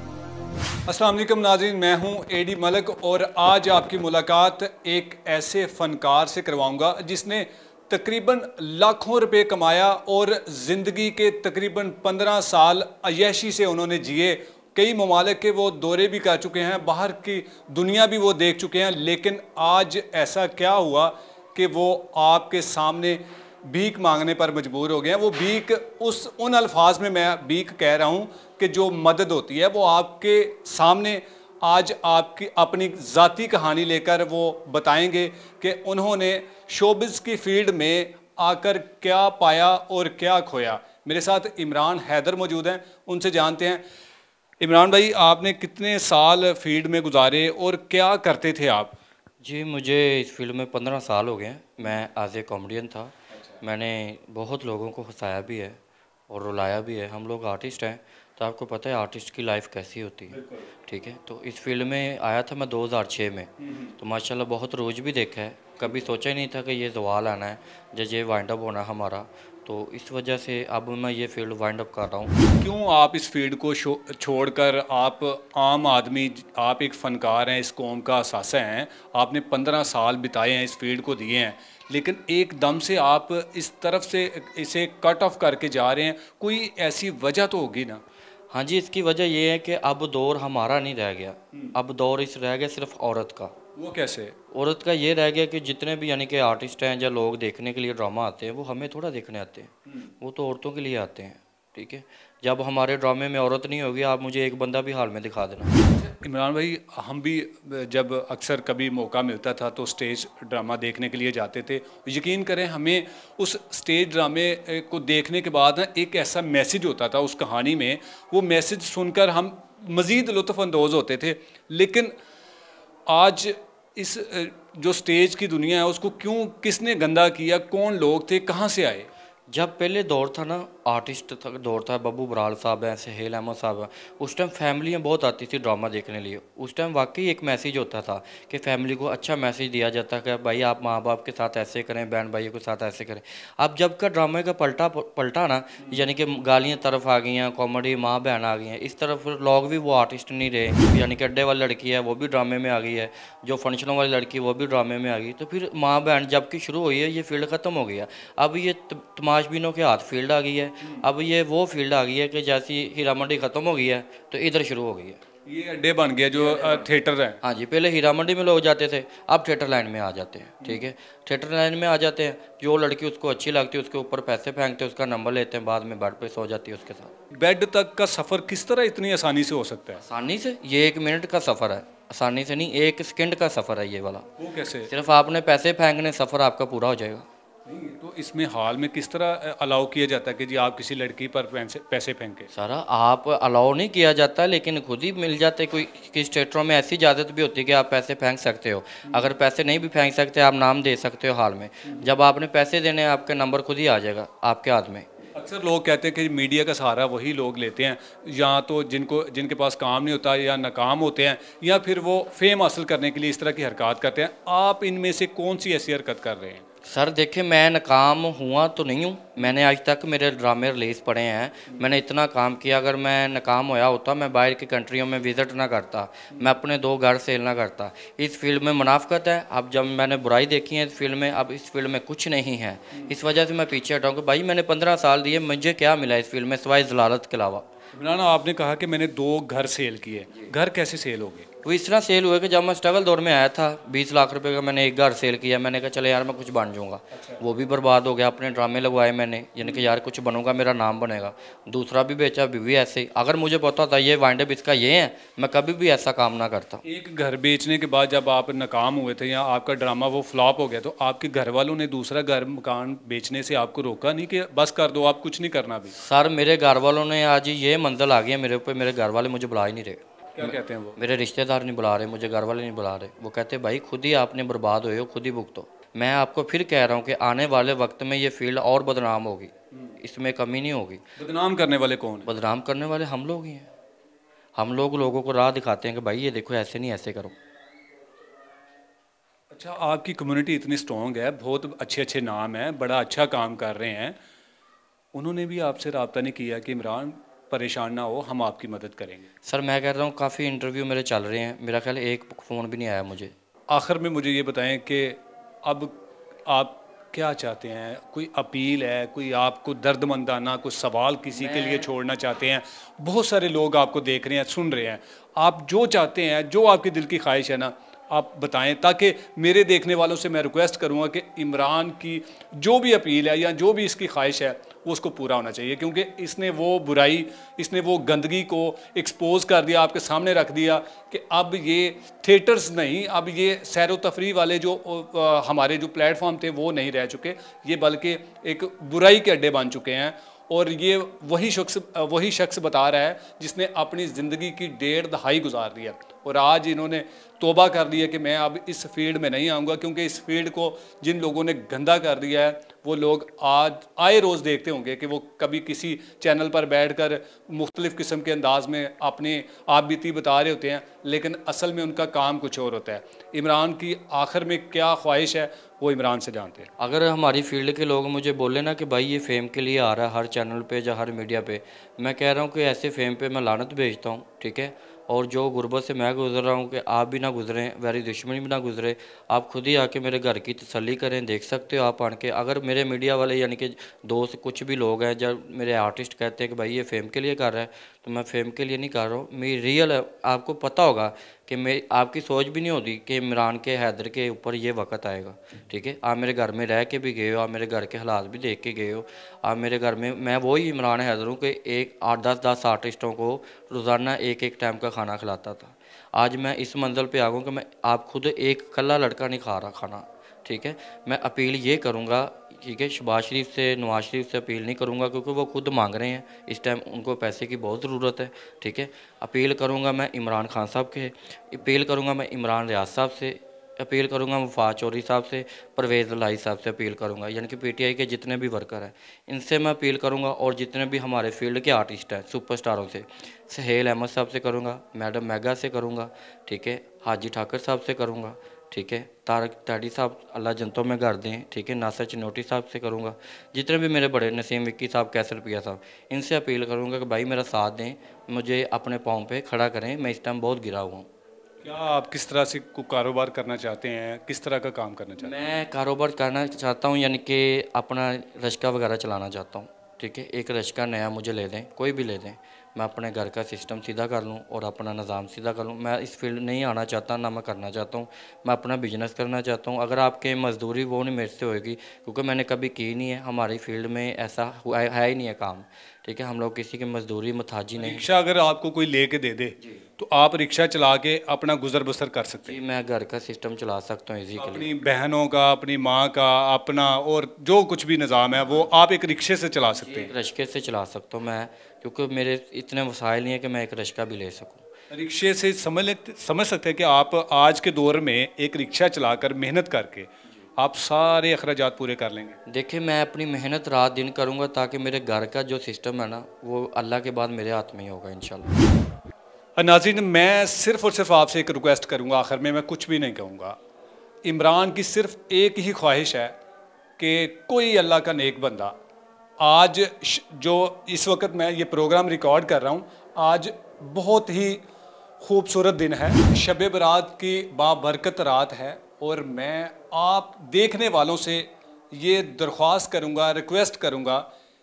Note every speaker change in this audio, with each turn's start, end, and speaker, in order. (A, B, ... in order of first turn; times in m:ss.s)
0:00.9-0:43.8 A
0:44.6-0:49.0 A
0:49.4-1:12.4 B
1:00.3-1:00.7 A
1:03.6-1:04.0 A
1:12.6-1:28.0 A
1:28.5-1:33.6 B
1:33.8-1:34.4 A
1:34.5-1:45.7 B
1:45.9-2:02.1 A
2:03.1-2:09.1 A
2:09.5-2:45.2 B
2:40.8-2:41.1 A
2:45.5-2:47.4 A
2:46.4-2:46.9 B
2:47.4-2:57.1 B
2:57.3-3:00.0 A
3:00.0-3:04.3 B
3:04.4-3:04.9 A
3:04.9-3:07.3 B
3:07.7-3:12.5 A
3:12.5-3:25.1 B
3:19.0-3:19.3 A
3:25.4-3:36.6 A
3:36.8-3:57.7 B
3:57.9-4:01.5 A
4:01.6-4:16.8 B
4:07.1-4:07.4 A
4:09.6-4:09.9 A
4:16.8-4:25.9 A
4:26.0-4:41.0 B
4:30.4-4:31.0 A
4:41.2-4:42.3 A
4:42.2-4:43.7 B
4:44.6-4:47.3 B
4:49.5-4:54.2 A
4:55.1-4:59.3 A
4:59.4-5:03.3 B
5:03.7-6:06.7 A
5:11.3-5:11.9 B
6:06.8-7:31.1 B
7:31.6-7:35.3 A
7:35.2-7:58.0 B
7:57.8-8:02.6 A
8:02.4-8:04.7 B
8:04.4-8:10.1 A
8:09.7-8:14.7 B
8:14.9-8:22.4 A
8:22.5-8:28.5 B
8:29.6-8:33.6 A
8:34.2-8:36.4 A
8:37.0-8:38.8 A
8:39.4-8:44.6 A
8:45.2-8:54.3 A